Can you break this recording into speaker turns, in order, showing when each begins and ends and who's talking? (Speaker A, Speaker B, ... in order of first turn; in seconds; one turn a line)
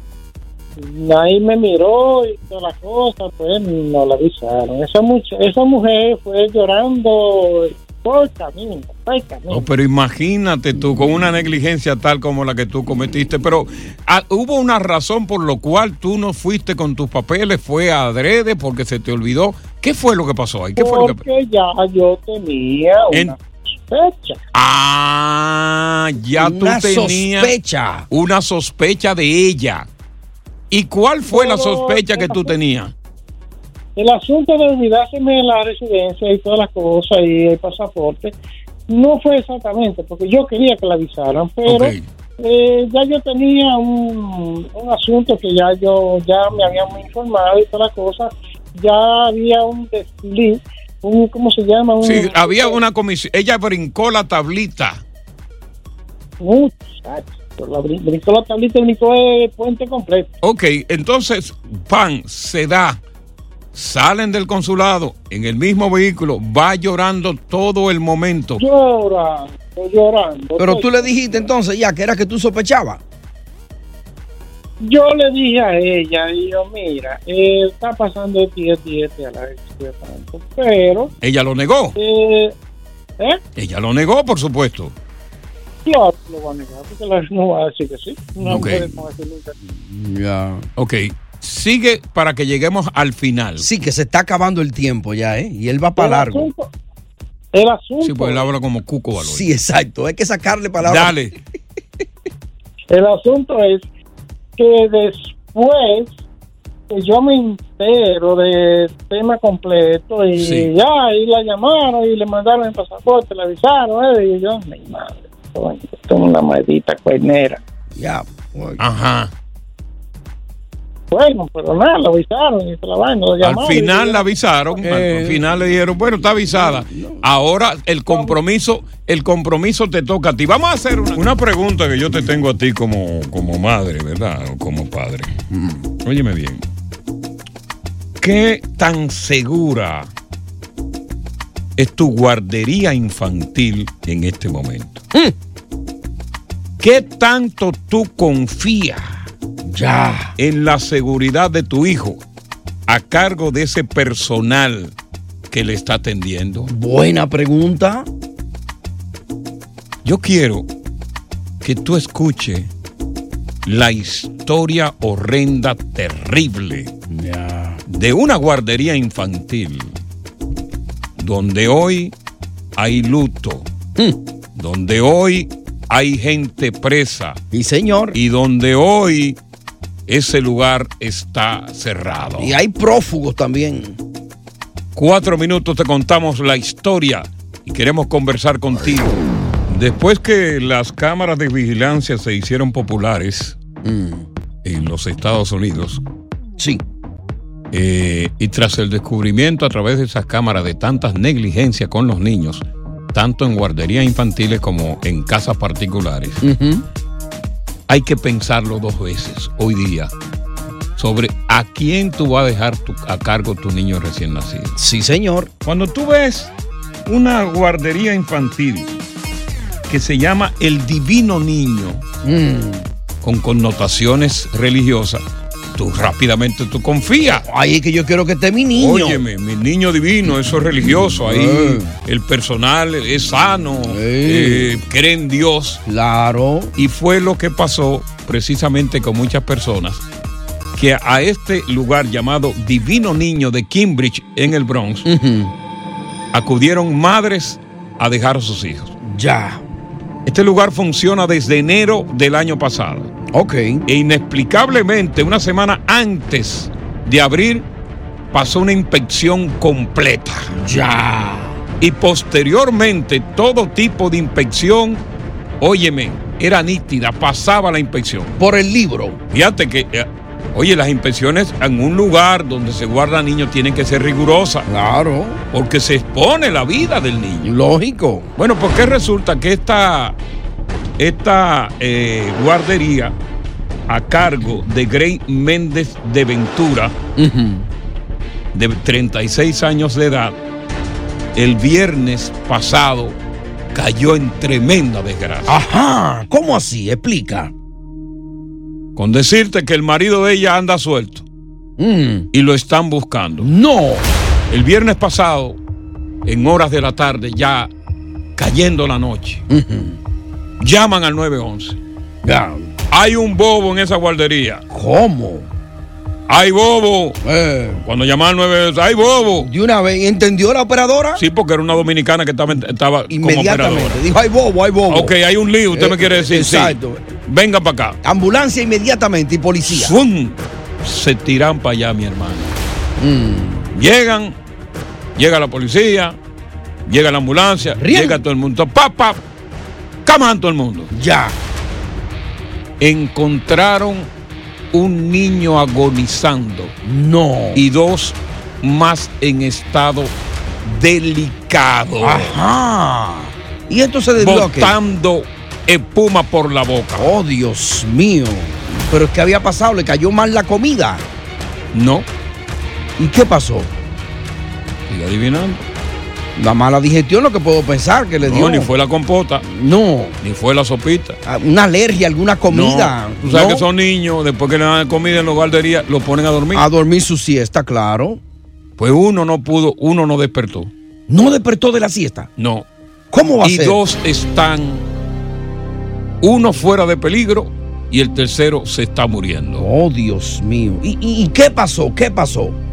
Speaker A: 0.8-9.7
Speaker B: 9.5-21.2
Speaker A: 20.8-24.4
Speaker B: 23.1-23.4
Speaker B: 24.5-27.5
Speaker C: 26.4-28.1
Speaker B: 28.1-29.9
Speaker B: 30.7-32.9
Speaker A: 31.3-32.5
Speaker A: 34.0-38.4
Speaker A: 38.9-52.8
Speaker B: 41.7-42.0
Speaker B: 52.0-55.0
Speaker A: 56.4-60.3
Speaker B: 60.4-63.0
Speaker B: 63.7-68.6
Speaker A: 68.6-71.5
Speaker C: 70.6-73.0
Speaker A: 74.8-81.1
Speaker B: 81.2-82.0
Speaker A: 82.0-82.5
Speaker B: 83.6-84.9
Speaker A: 85.8-89.5
Speaker C: 88.5-88.8
Speaker B: 88.5-88.9
Speaker C: 89.6-90.7
Speaker B: 90.8-93.7
Speaker C: 93.6-96.5
Speaker A: 96.0-96.7
Speaker A: 97.5-98.5
Speaker B: 98.0-99.5
Speaker C: 99.2-101.2
Speaker B: 100.8-101.3
Speaker A: 102.9-103.9
Speaker A: 104.6-106.1
Speaker A: 106.9-117.6
Speaker B: 110.4-110.7
Speaker C: 118.0-118.8
Speaker B: 118.8-119.3
Speaker A: 121.1-124.3
Speaker B: 123.4-135.3
Speaker C: 124.8-125.5
Speaker C: 126.4-127.2
Speaker C: 135.5-135.9
Speaker B: 136.0-136.7
Speaker B: 138.2-140.1
Speaker B: 141.8-145.0
Speaker B: 146.8-149.2
Speaker C: 149.6-150.3
Speaker B: 150.4-152.2
Speaker B: 152.9-154.9
Speaker B: 155.5-156.7
Speaker C: 156.7-158.1
Speaker B: 160.0-160.7
Speaker B: 161.6-162.7
Speaker B: 163.7-166.9
Speaker C: 167.1-167.8
Speaker B: 167.9-170.0
Speaker B: 171.2-172.1
Speaker B: 172.8-173.7
Speaker B: 174.6-177.4
Speaker C: 177.5-178.2
Speaker B: 178.1-179.4
Speaker B: 180.1-182.6
Speaker C: 182.4-184.0
Speaker B: 184.9-189.2
Speaker B: 189.7-193.6
Speaker C: 193.8-194.3
Speaker B: 194.6-196.0
Speaker C: 196.6-196.8
Speaker B: 197.7-206.4
Speaker C: 206.4-206.8
Speaker B: 207.9-210.1
Speaker B: 211.0-214.8
Speaker C: 214.8-215.5
Speaker B: 215.6-216.5
Speaker B: 217.1-218.9
Speaker B: 219.9-222.0
Speaker C: 222.2-222.9
Speaker B: 223.2-225.2
Speaker B: 225.8-227.5
Speaker C: 227.3-229.2
Speaker B: 228.7-235.8
Speaker C: 230.8-231.9
Speaker C: 233.9-234.8
Speaker C: 235.9-236.8
Speaker B: 236.8-240.0
Speaker B: 240.8-245.1
Speaker C: 245.1-245.5
Speaker B: 246.3-248.9
Speaker C: 249.0-249.6
Speaker B: 250.3-253.1
Speaker C: 253.3-253.8
Speaker B: 253.9-257.7
Speaker B: 258.3-260.5
Speaker C: 260.5-261.6
Speaker B: 261.8-265.0
Speaker B: 265.6-268.3
Speaker C: 268.4-269.2
Speaker B: 269.3-274.7
Speaker C: 274.7-275.4
Speaker B: 275.5-277.5
Speaker C: 277.4-278.3
Speaker B: 278.4-280.2
Speaker B: 281.0-283.2
Speaker B: 283.9-287.0
Speaker C: 287.2-287.7
Speaker B: 288.5-290.4
Speaker B: 291.4-293.2
Speaker B: 293.7-295.6
Speaker C: 295.5-297.5
Speaker B: 299.0-301.2
Speaker C: 301.8-302.3
Speaker B: 302.3-303.5
Speaker C: 303.4-304.1
Speaker B: 304.5-305.6
Speaker B: 306.2-307.7
Speaker B: 308.4-309.4
Speaker C: 309.5-310.0
Speaker B: 310.6-311.8
Speaker C: 312.2-312.7
Speaker B: 312.9-314.6
Speaker C: 314.7-315.5
Speaker B: 316.3-317.2
Speaker C: 317.2-317.8
Speaker B: 317.8-319.5
Speaker C: 319.4-321.2
Speaker B: 321.2-324.0
Speaker C: 323.1-325.1
Speaker B: 324.9-328.0
Speaker C: 325.7-327.1
Speaker C: 328.0-330.0
Speaker B: 329.7-332.6
Speaker C: 333.0-333.7
Speaker B: 333.8-334.4
Speaker B: 335.2-336.2
Speaker B: 336.9-339.2
Speaker C: 337.8-338.2
Speaker B: 340.1-340.9
Speaker C: 340.9-341.4
Speaker B: 342.8-344.1
Speaker B: 344.7-346.8
Speaker C: 346.8-347.6
Speaker B: 347.5-350.1
Speaker B: 350.6-352.4
Speaker C: 352.0-354.8
Speaker B: 354.2-357.1
Speaker C: 357.0-361.1
Speaker B: 361.7-362.1
Speaker C: 363.0-363.7
Speaker B: 364.9-365.6
Speaker C: 366.4-368.7
Speaker B: 368.2-369.4
Speaker C: 369.4-370.2
Speaker B: 370.2-371.2
Speaker C: 371.2-373.7
Speaker B: 372.5-376.7
Speaker C: 376.5-378.2
Speaker B: 378.8-380.7
Speaker C: 381.1-382.3
Speaker B: 382.4-382.7
Speaker C: 383.1-383.8
Speaker B: 383.4-384.9
Speaker B: 386.2-389.7
Speaker C: 389.6-392.6